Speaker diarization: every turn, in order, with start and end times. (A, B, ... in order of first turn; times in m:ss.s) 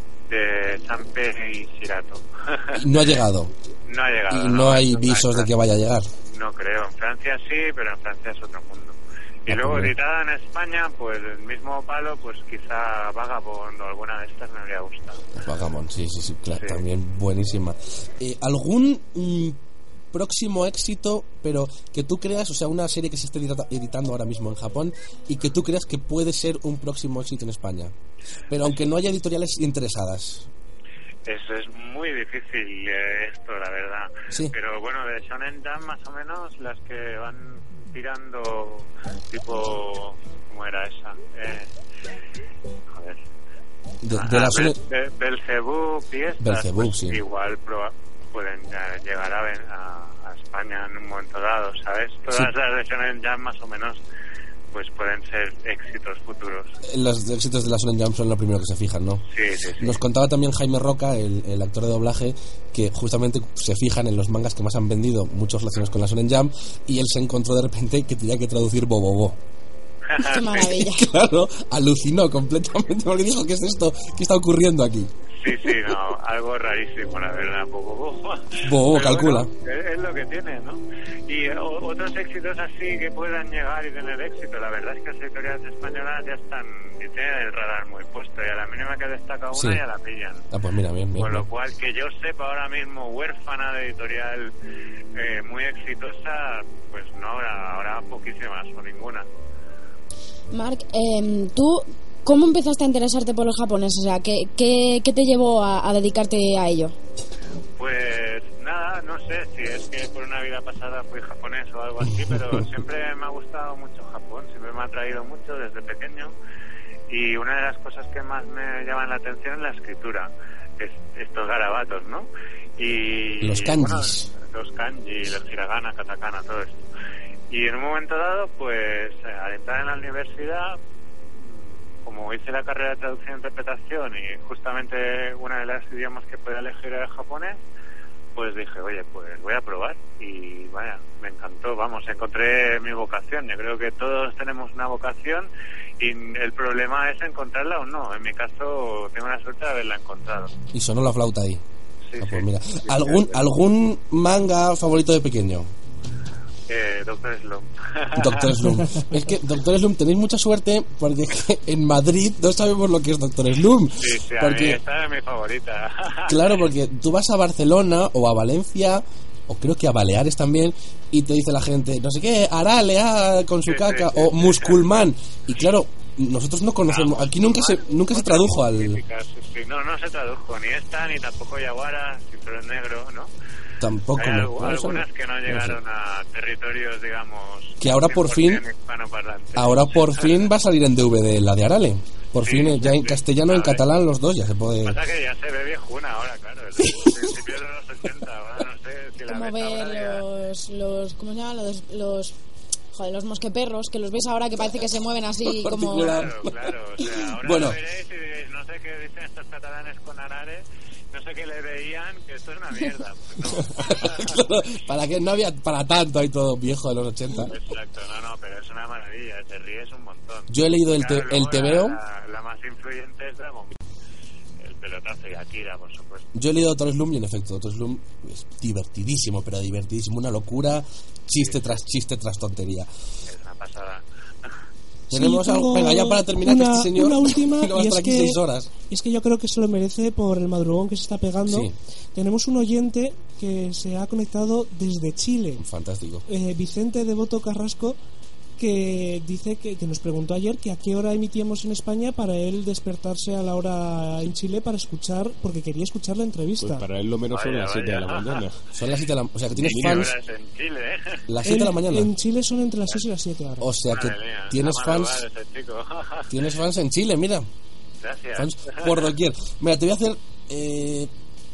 0:00.3-0:02.8 A
0:02.7-0:03.5 B
0:03.9-0:05.5 A
0:04.3-0:06.1 B
0:06.3-0:15.2 A
0:09.5-0:09.9 B
0:15.4-0:19.6 B
0:16.5-0:16.8 A
0:20.1-0:27.9 B
0:28.5-0:30.5 B
0:31.2-0:41.7 A
0:42.9-0:43.2 A
0:44.0-0:44.8 B
0:44.1-0:54.0 A
0:46.4-0:47.2 B
0:54.7-0:56.7 A
0:56.8-0:59.2 B
0:59.3-1:00.0 A
0:59.8-1:09.4 B
1:10.1-1:10.7 A
1:10.2-1:11.0 C
1:10.6-1:15.1 B
1:15.4-1:30.4 A
1:15.6-1:15.9 B
1:18.6-1:19.5 B
1:29.5-1:29.8 B
1:30.5-1:31.5 B
1:31.2-1:34.5 A
1:35.1-1:39.3 A
1:40.5-1:46.9 C
1:47.8-1:56.3 A
1:52.2-1:52.6 B
1:57.1-2:06.8 A
2:03.4-2:04.3 B
2:07.5-2:10.8 A
2:11.3-2:17.6 A
2:18.4-2:30.5 A
2:30.7-2:31.6 B
2:32.1-2:33.4 A
2:32.2-2:35.7 B
2:36.7-2:38.6 A
2:38.2-2:44.8 B
2:44.0-2:46.6 A
2:46.3-2:59.0 B
2:53.6-2:54.8 A
2:56.9-3:03.3 A
3:03.8-3:05.8 B
3:04.2-3:10.4 A
3:07.8-3:08.6 B
3:09.5-3:15.0 B
3:12.4-3:13.8 A
3:14.8-3:20.2 A
3:16.8-3:17.3 B
3:19.3-3:22.3 C
3:22.9-3:26.2 C
3:25.4-3:27.8 B
3:25.9-3:34.4 A
3:33.7-3:37.6 B
3:37.4-3:43.8 A
3:40.5-3:42.0 B
3:44.6-3:46.2 A
3:46.3-3:52.9 B
3:51.4-3:51.8 A
3:53.3-3:54.5 A
3:55.1-3:58.7 B
3:55.1-4:05.6 D
4:01.4-4:01.7 B
4:05.6-4:06.2 B
4:06.3-4:08.0 D
4:08.6-4:16.8 D
4:16.6-4:18.6 E
4:17.3-4:18.4 A
4:18.7-4:20.1 B
4:19.5-4:20.0 E
4:19.7-4:21.2 A
4:21.3-4:22.1 B
4:21.4-4:23.6 D
4:23.6-4:25.2 B
4:23.9-4:26.3 A
4:26.3-4:27.4 B
4:28.0-4:29.1 A
4:28.3-4:31.1 B